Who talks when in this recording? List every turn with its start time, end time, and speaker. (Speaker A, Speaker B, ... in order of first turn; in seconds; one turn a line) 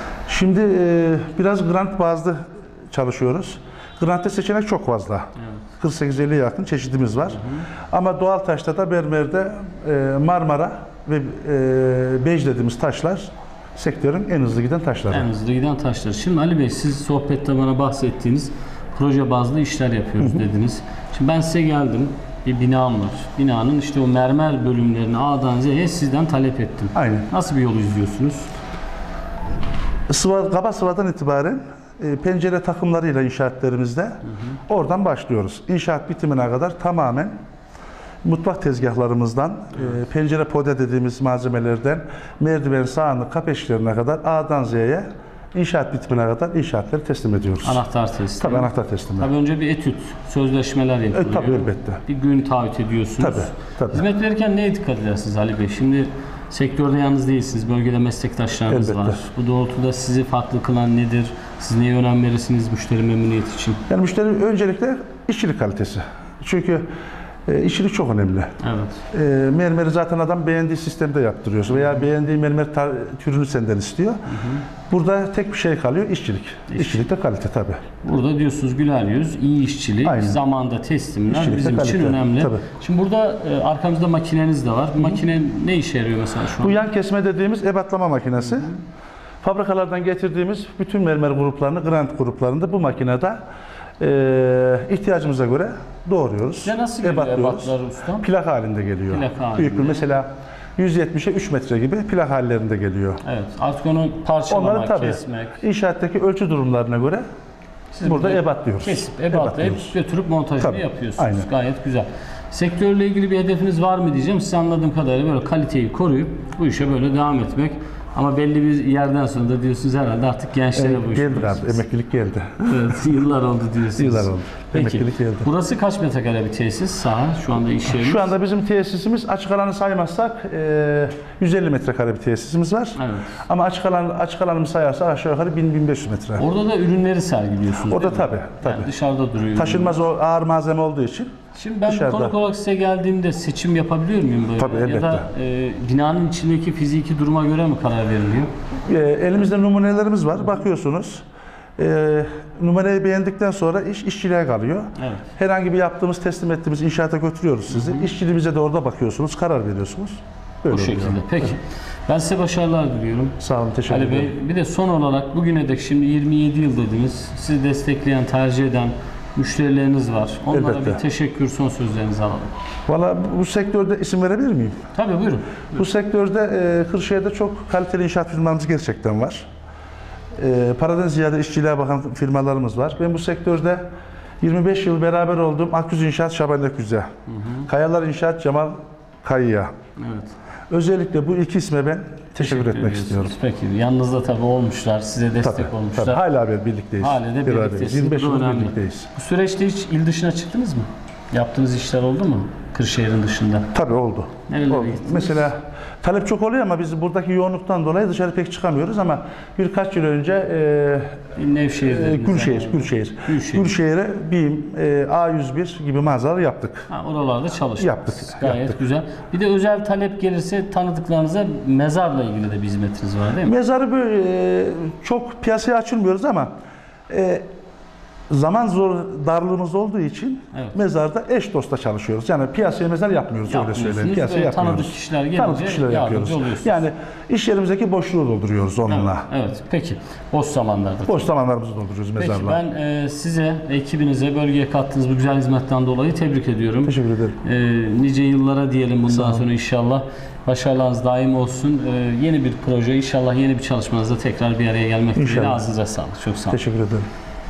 Speaker A: 0.3-5.3
Speaker A: 5.8-7.4
Speaker B: 7.3-7.7
Speaker A: 7.9-15.3
Speaker B: 15.1-28.5
Speaker A: 26.9-27.3
Speaker A: 30.1-37.3
Speaker A: 38.2-47.8
Speaker B: 47.6-63.8
Speaker A: 48.4-49.3
Speaker A: 51.1-52.0
Speaker A: 53.2-54.0
Speaker A: 58.7-59.2
Speaker A: 63.9-66.8
Speaker A: 67.5-68.5
Speaker B: 68.6-69.0
Speaker A: 69.1-74.2
Speaker B: 71.7-72.0
Speaker B: 74.3-74.6
Speaker A: 74.9-77.8
Speaker B: 76.7-77.0
Speaker B: 78.0-86.8
Speaker A: 80.0-80.4
Speaker A: 81.3-82.6
Speaker A: 86.6-88.7
Speaker A: 89.4-93.4
Speaker A: 94.0-103.2
Speaker B: 96.6-98.3
Speaker B: 99.1-100.1
Speaker B: 103.2-105.6
Speaker A: 104.5-107.2
Speaker B: 107.9-121.8
Speaker A: 108.0-110.0
Speaker A: 110.6-111.5
Speaker A: 120.7-123.0
Speaker B: 122.6-128.3
Speaker A: 124.0-125.5
Speaker A: 127.9-136.4
Speaker B: 132.9-133.4
Speaker B: 136.4-139.9
Speaker A: 137.8-138.9
Speaker A: 139.5-141.3
Speaker B: 141.5-148.5
Speaker A: 141.9-142.3
Speaker A: 144.6-145.3
Speaker A: 148.8-151.2
Speaker A: 151.8-161.2
Speaker B: 155.0-155.2
Speaker B: 157.7-158.1
Speaker B: 160.7-163.3
Speaker A: 163.4-164.3
Speaker B: 163.9-172.5
Speaker A: 170.5-171.0
Speaker A: 172.9-174.8
Speaker B: 174.9-175.6
Speaker A: 175.7-179.5
Speaker A: 180.3-183.8
Speaker A: 184.4-187.1
Speaker B: 187.3-187.7
Speaker A: 187.7-189.7
Speaker B: 190.0-190.3
Speaker A: 190.7-193.3
Speaker B: 192.4-196.2
Speaker A: 195.4-199.1
Speaker B: 197.0-203.7
Speaker A: 203.7-211.2
Speaker B: 204.5-205.5
Speaker B: 211.3-213.7
Speaker A: 211.8-216.9
Speaker B: 216.9-223.5
Speaker A: 217.8-218.8
Speaker A: 223.4-226.5
Speaker A: 227.1-227.4
Speaker A: 228.3-239.3
Speaker B: 233.5-236.8
Speaker B: 238.9-241.3
Speaker A: 241.1-242.6
Speaker B: 242.2-256.6
Speaker A: 246.8-247.4
Speaker A: 249.1-249.5
Speaker A: 255.2-255.6
Speaker A: 256.5-257.1